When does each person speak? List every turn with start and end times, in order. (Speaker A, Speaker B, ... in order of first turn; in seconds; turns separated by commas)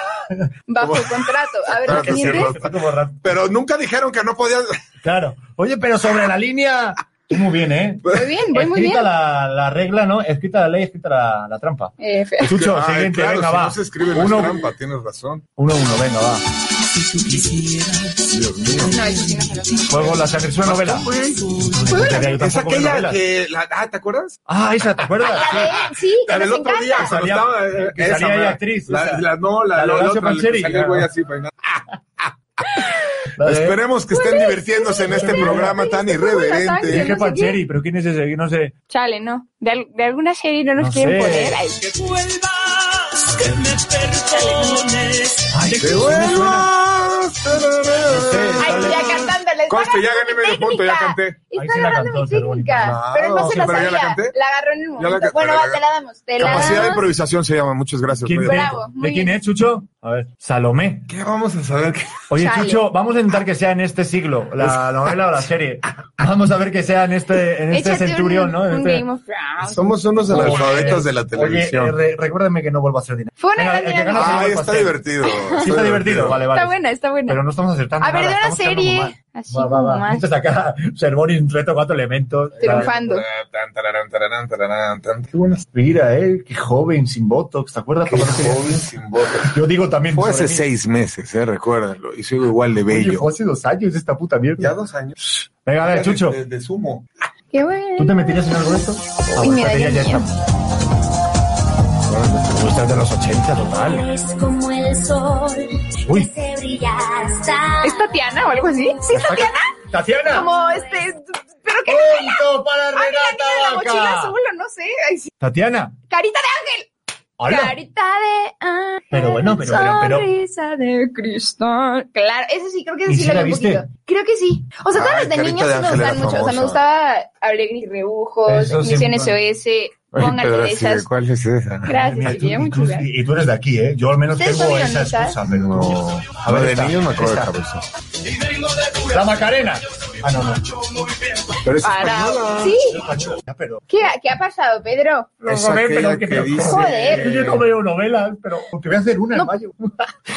Speaker A: 0.7-2.5, Speaker B: 0.8-1.1, Speaker B: 1.8-4.8, Speaker C: 1.9-3.3, Speaker C: 5.0-11.9, Speaker A: 8.1-9.1, Speaker A: 12.0-12.5, Speaker C: 12.4-14.7, Speaker B: 12.5-15.5, Speaker C: 15.6-16.4, Speaker B: 18.3-19.0, Speaker A: 18.9-20.0, Speaker C: 19.9-23.2, Speaker B: 20.6-24.4, Speaker A: 21.9-22.3, Speaker C: 24.5-25.6, Speaker A: 25.3-27.2, Speaker B: 25.4-32.8, Speaker C: 27.0-31.1, Speaker C: 33.4-33.8, Speaker B: 33.4-37.1, Speaker A: 34.1-37.6, Speaker C: 35.1-35.7, Speaker C: 36.9-38.7, Speaker A: 38.9-41.9, Speaker C: 40.8-41.6, Speaker C: 45.5-46.7, Speaker B: 45.8-51.5, Speaker C: 48.1-49.3, Speaker A: 48.6-57.1, Speaker C: 51.5-53.0, Speaker B: 52.8-54.4, Speaker B: 55.0-55.8, Speaker B: 56.4-58.8, Speaker C: 56.4-56.9, Speaker C: 58.2-61.1, Speaker A: 58.4-59.4, Speaker B: 61.1-62.3, Speaker C: 62.3-69.0, Speaker A: 62.4-62.9, Speaker A: 67.7-70.9, Speaker B: 69.7-72.0, Speaker C: 70.3-75.0, Speaker A: 73.4-74.6, Speaker B: 74.1-76.4, Speaker A: 75.2-75.7, Speaker C: 75.6-76.7, Speaker A: 76.5-77.4, Speaker C: 77.3-82.9, Speaker A: 78.0-80.2, Speaker B: 82.6-85.4, Speaker A: 82.6-83.2, Speaker C: 85.3-88.8, Speaker B: 88.0-89.6, Speaker C: 89.5-90.6, Speaker B: 90.1-93.3, Speaker C: 92.9-94.7, Speaker B: 94.6-95.1, Speaker C: 95.7-96.4, Speaker B: 95.8-97.1, Speaker A: 97.5-98.2, Speaker C: 98.0-100.3, Speaker A: 99.4-100.2, Speaker B: 102.1-102.6, Speaker C: 102.5-104.1, Speaker D: 103.8-109.4, Speaker A: 107.8-109.8, Speaker C: 109.1-110.5, Speaker A: 110.3-115.3, Speaker D: 110.4-111.0, Speaker C: 111.9-114.3, Speaker C: 115.4-116.0, Speaker A: 116.1-116.9, Speaker C: 117.4-117.8, Speaker A: 117.4-131.1, Speaker C: 119.1-120.3, Speaker C: 123.1-123.8, Speaker B: 124.9-126.8, Speaker C: 128.5-129.3, Speaker B: 130.1-132.4, Speaker A: 131.8-133.1, Speaker C: 131.9-137.6, Speaker A: 134.4-135.4, Speaker B: 135.5-137.8, Speaker C: 138.9-140.8, Speaker B: 141.6-142.8, Speaker A: 141.8-143.0, Speaker C: 142.8-143.8, Speaker A: 143.9-145.3, Speaker C: 145.4-150.1, Speaker B: 145.5-147.6, Speaker A: 146.6-147.5